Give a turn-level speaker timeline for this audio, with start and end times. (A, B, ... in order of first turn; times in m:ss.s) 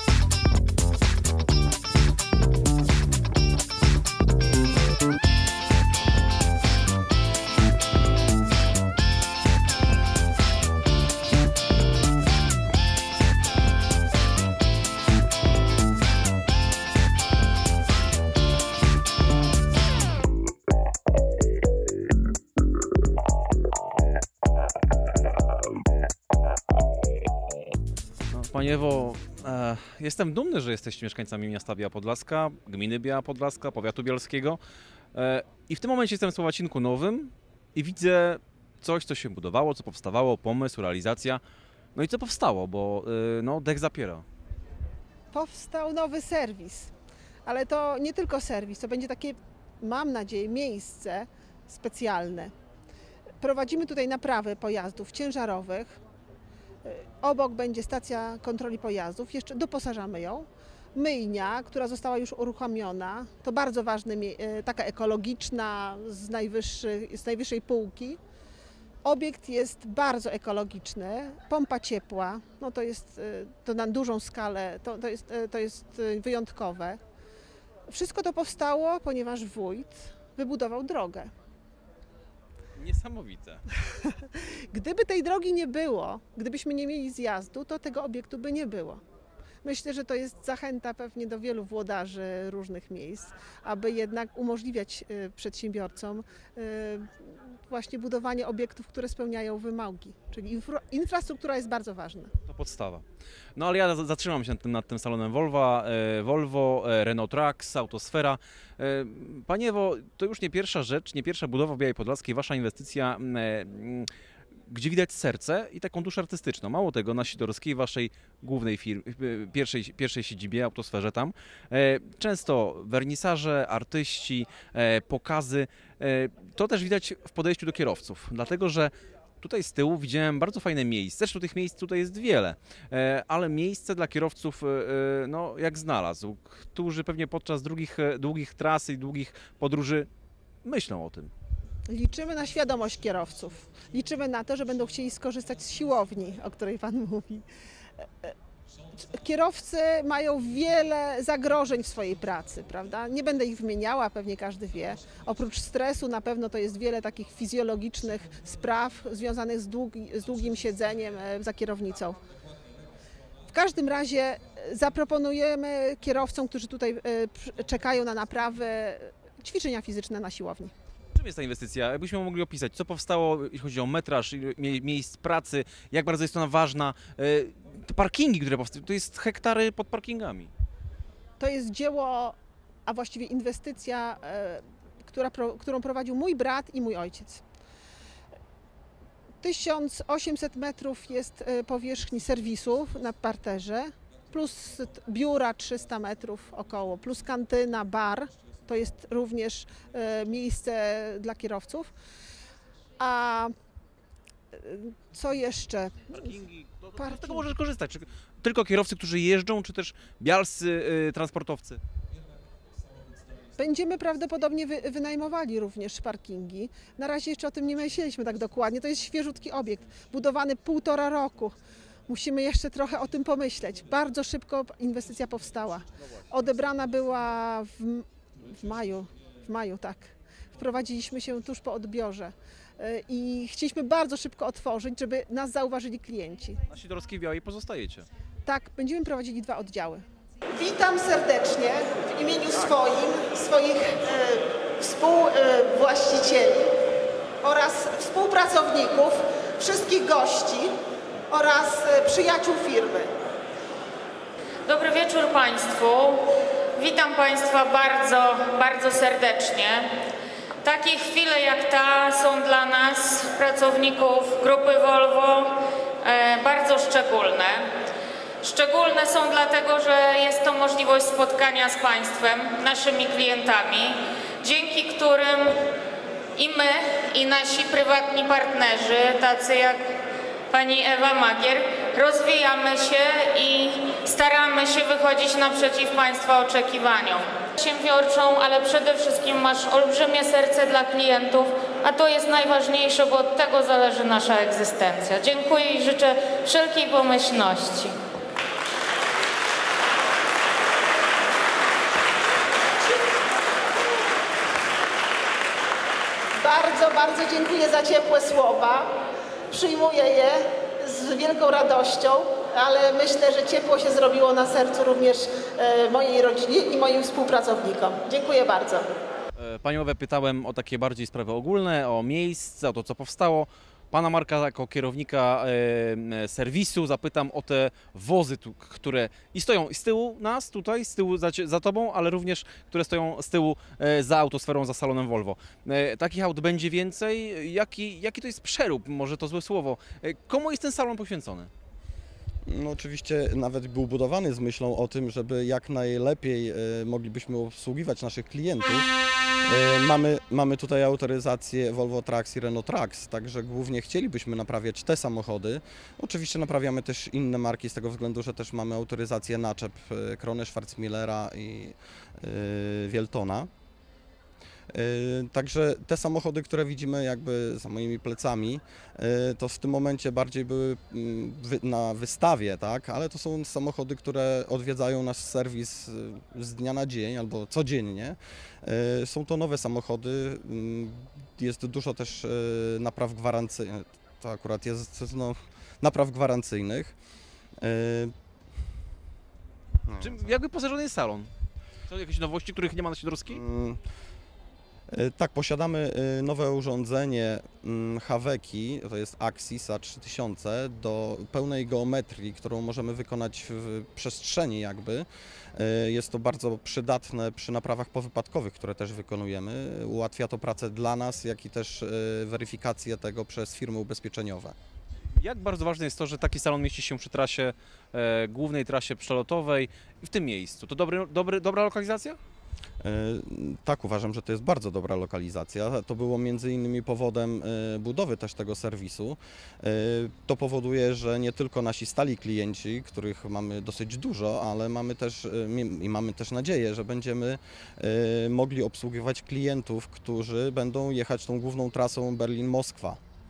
0:28.3-0:34.6 A
0:35.1-0:41.4 A
0:42.0-0:44.2 A
0:45.3-0:46.9 B
0:47.4-0:52.5 B
0:53.4-0:56.0 B
0:56.8-1:08.2 B
1:09.0-1:17.0 B
1:17.9-1:21.3 B
1:22.8-1:23.6 A
1:24.0-1:29.0 B
1:29.6-1:42.3 B
1:42.5-1:43.0 A
1:43.6-1:54.1 A
1:54.7-2:20.1 A
2:20.6-2:21.3 A
2:21.9-2:27.5 B
2:28.0-2:28.3 B
2:29.0-2:42.2 B
2:43.5-2:50.7 B
2:51.2-3:00.5 A
3:01.4-3:07.4 B
3:09.4-3:21.9 B
3:23.0-3:23.5 B
3:24.5-3:26.4 B
3:26.1-3:31.8 A
3:27.0-3:27.4 B
3:33.6-3:56.6 B
3:56.7-3:58.1 A
3:58.4-4:06.7 B
4:07.4-4:10.8 B
4:11.3-4:13.1 B
4:14.7-4:19.9 C
4:20.6-4:27.7 C
4:28.4-4:35.6 C
4:36.4-4:39.8 C
4:40.5-4:58.0 C
5:06.4-5:08.9 B
5:09.5-5:18.9 B
5:19.4-5:41.5 A
5:42.5-5:48.9 D
5:49.5-6:03.5 D
6:04.7-6:27.0 D
6:27.6-6:28.1 D
6:29.9-6:30.4 D
6:30.0-6:31.3 A
6:31.9-6:33.4 A
6:33.3-6:33.8 D
6:34.9-6:54.6 D
6:55.2-7:02.2 A
7:02.8-7:23.0 D